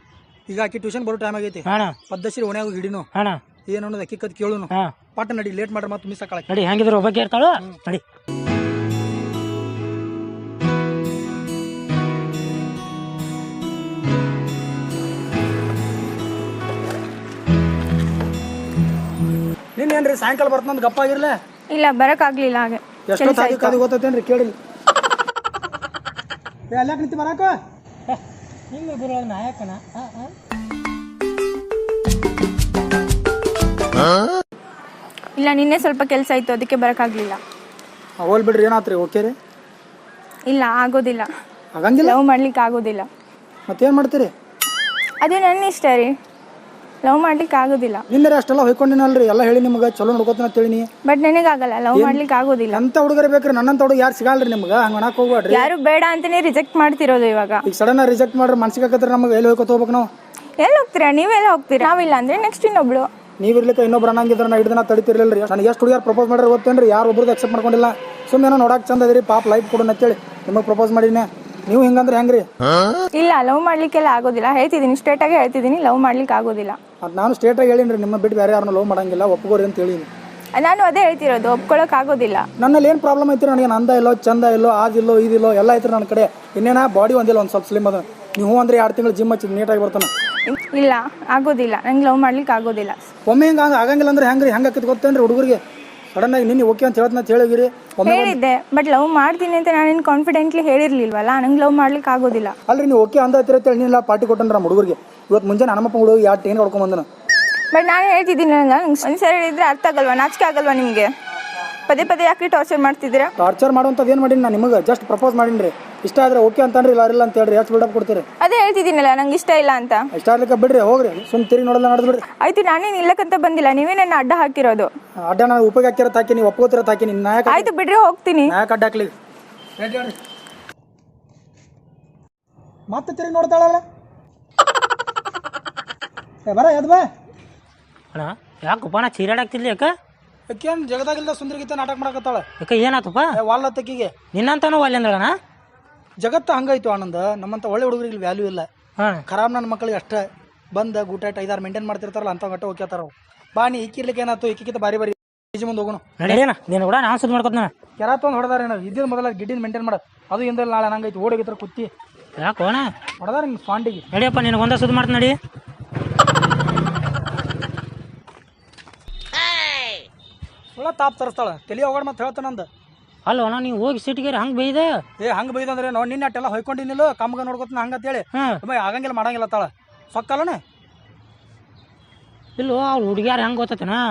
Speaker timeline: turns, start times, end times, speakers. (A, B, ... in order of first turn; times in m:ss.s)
0:00.5-0:03.1 A
0:01.6-0:02.0 B
0:03.1-0:03.4 B
0:03.7-0:06.5 A
0:06.5-0:08.0 B
0:19.8-0:21.3 A
0:21.7-0:23.8 C
0:23.1-0:24.5 A
0:26.7-0:27.5 A
0:28.1-0:30.3 B
0:35.4-0:37.4 C
0:38.2-0:39.3 A
0:40.5-0:41.3 C
0:41.7-0:42.2 A
0:42.0-0:43.1 C
0:43.7-0:44.3 A
0:45.2-0:46.1 C
0:47.0-0:48.0 C
0:48.1-0:50.9 A
0:51.0-0:52.8 C
0:51.9-0:55.7 A
0:55.5-0:57.6 C
0:57.6-1:00.1 A
1:00.6-1:03.1 C
1:03.4-1:12.5 A
1:13.2-1:16.8 C
1:17.0-1:20.1 A
1:20.5-1:22.4 C
1:22.6-1:30.1 A
1:30.5-1:33.0 C
1:33.2-1:35.6 A
1:36.1-1:38.4 A
1:38.1-1:42.6 C
1:42.7-1:47.0 A
1:47.7-1:51.1 C
1:51.8-1:53.3 C
1:53.4-1:58.2 A
1:58.4-2:00.0 C
2:00.1-2:02.2 A
2:02.4-2:04.9 C
2:05.2-2:07.7 A
2:07.5-2:08.5 C
2:08.4-2:09.1 A
2:09.8-2:10.2 A
2:12.9-2:13.8 A
2:16.4-2:17.0 A
2:18.1-2:19.9 B
2:20.5-2:22.4 A
2:22.6-2:23.3 B
2:23.3-2:24.1 A
2:24.3-2:25.3 B
2:26.2-2:28.7 A
2:29.2-2:36.1 A
2:36.2-2:37.7 B
2:38.0-2:41.9 A
2:42.4-2:42.9 B
2:43.2-2:44.0 A
2:44.1-2:45.4 B
2:50.7-2:52.7 A
2:53.2-2:55.0 B
2:55.2-3:00.6 A
3:02.6-3:04.0 B